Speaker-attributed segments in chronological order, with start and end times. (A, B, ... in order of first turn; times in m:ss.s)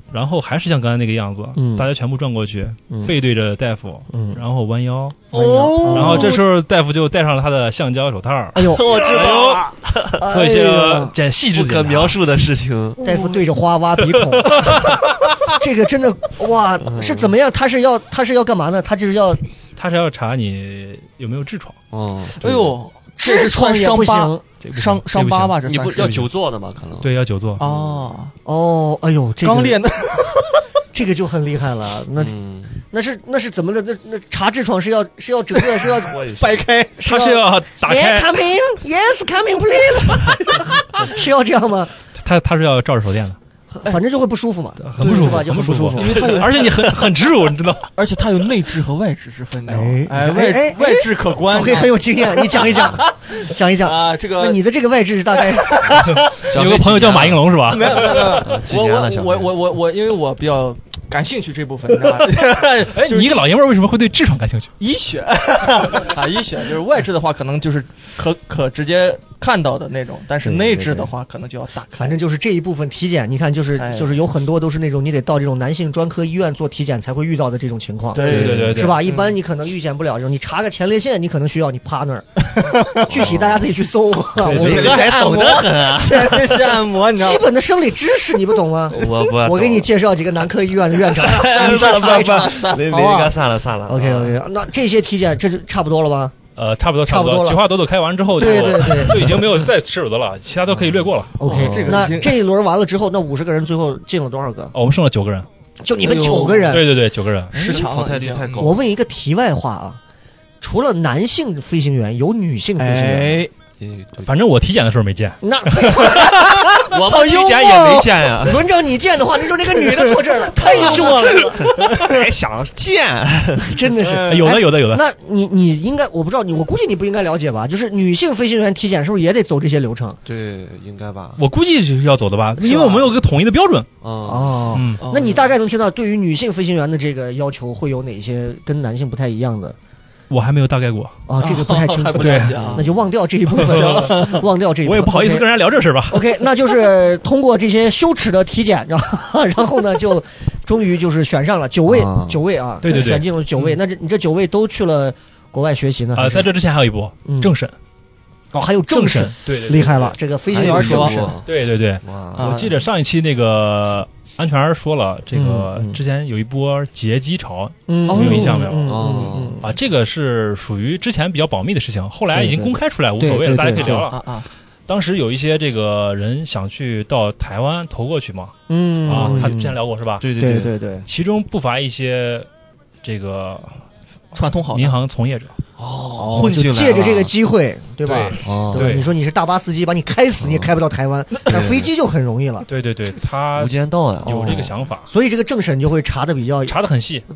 0:00.1-0:05.3 A
0:01.5-0:01.9 B
0:04.1-0:04.4 B
0:05.3-0:06.4 C
0:05.3-0:06.4 B
0:05.8-0:12.2 A
0:08.5-0:09.4 B
0:08.7-0:10.2 D
0:10.1-0:11.2 B
0:11.5-0:13.0 D
0:13.0-0:19.4 B
0:13.0-0:13.4 C
0:14.6-0:14.9 A
0:16.8-0:17.3 D
0:19.8-0:21.8 A
0:21.9-0:22.8 D
0:22.4-0:26.3 C
0:23.2-0:24.4 B
0:24.6-0:26.3 A
0:25.6-0:28.1 D
0:27.0-0:27.6 A
0:27.6-0:28.3 C
0:28.4-0:29.9 B
0:29.4-0:30.6 C
0:30.9-0:36.2 B
0:32.2-0:32.8 D
0:35.8-0:37.0 C
0:36.0-0:36.6 D
0:37.0-0:41.9 B
0:37.0-0:38.3 A
0:42.2-0:43.4 A
0:43.7-0:46.2 B
0:44.8-0:47.9 A
0:45.0-0:45.4 C
0:45.9-0:47.0 C
0:47.9-0:54.6 C
0:49.6-0:56.1 B
0:55.4-0:56.2 C
0:56.3-0:58.2 A
0:56.4-0:59.5 D
0:57.7-1:03.4 C
1:02.9-1:04.7 A
1:04.8-1:12.2 C
1:10.4-1:11.1 B
1:12.0-1:25.2 B
1:13.8-1:14.2 C
1:18.1-1:19.4 C
1:18.2-1:18.7 D
1:18.2-1:19.0 A
1:22.5-1:23.1 C
1:23.1-1:23.6 D
1:24.4-1:27.5 C
1:24.4-1:26.8 D
1:27.1-1:36.4 B
1:28.9-1:29.9 D
1:31.1-1:32.8 C
1:31.1-1:34.4 D
1:36.6-1:41.4 A
1:37.1-1:37.6 B
1:38.3-1:39.6 B
1:40.7-1:44.7 B
1:41.4-1:42.4 C
1:41.5-1:42.2 D
1:44.7-1:45.5 A
1:45.8-1:46.9 B
1:46.0-1:46.9 C
1:46.7-1:47.5 A
1:47.5-1:48.7 C
1:47.5-1:48.8 D
1:48.6-1:50.0 B
1:50.6-1:53.4 B
1:52.8-1:53.5 C
1:53.8-1:54.3 D
1:54.2-1:56.3 A
1:55.4-2:02.3 B
1:56.7-1:58.7 D
2:00.6-2:03.9 D
2:00.7-2:01.3 C
2:03.6-2:10.2 B
2:04.2-2:05.0 A
2:10.2-2:11.4 D
2:11.4-2:13.9 A
2:12.6-2:13.2 B
2:14.0-2:14.8 D
2:14.2-2:19.8 B
2:14.7-2:15.0 A
2:15.0-2:15.5 C
2:20.3-2:21.2 A
2:21.3-2:25.5 B
2:21.4-2:23.0 C
2:22.2-2:22.6 A
2:22.5-2:23.0 D
2:23.5-2:24.4 C
2:23.6-2:26.3 A
2:26.1-2:36.5 B
2:31.9-2:32.4 D
2:32.8-2:33.3 A
2:36.1-2:37.7 A
2:37.2-2:37.5 B
2:38.5-2:41.4 B
2:38.9-2:40.1 A
2:40.5-2:41.5 D
2:40.5-2:41.4 C
2:41.5-2:49.0 A
2:42.0-2:42.6 D
2:42.4-2:42.8 C
2:45.3-2:46.0 B
2:47.9-2:49.6 B
2:48.1-2:48.8 C
2:48.8-2:49.6 D
2:49.6-2:54.3 A
2:52.3-2:54.1 B
2:53.8-2:54.5 C
2:54.9-3:00.2 A
2:58.7-2:59.7 B
2:59.1-3:00.7 D
3:00.3-3:01.1 B
3:01.1-3:02.5 A
3:03.0-3:03.8 A
3:04.3-3:04.9 C
3:04.7-3:05.5 A
3:05.8-3:07.3 D
3:06.2-3:12.7 B
3:08.0-3:09.1 A
3:08.4-3:09.0 D
3:10.4-3:10.7 D
3:11.5-3:11.9 D
3:12.7-3:15.1 A
3:13.5-3:14.8 D
3:14.2-3:16.8 B
3:16.6-3:17.2 A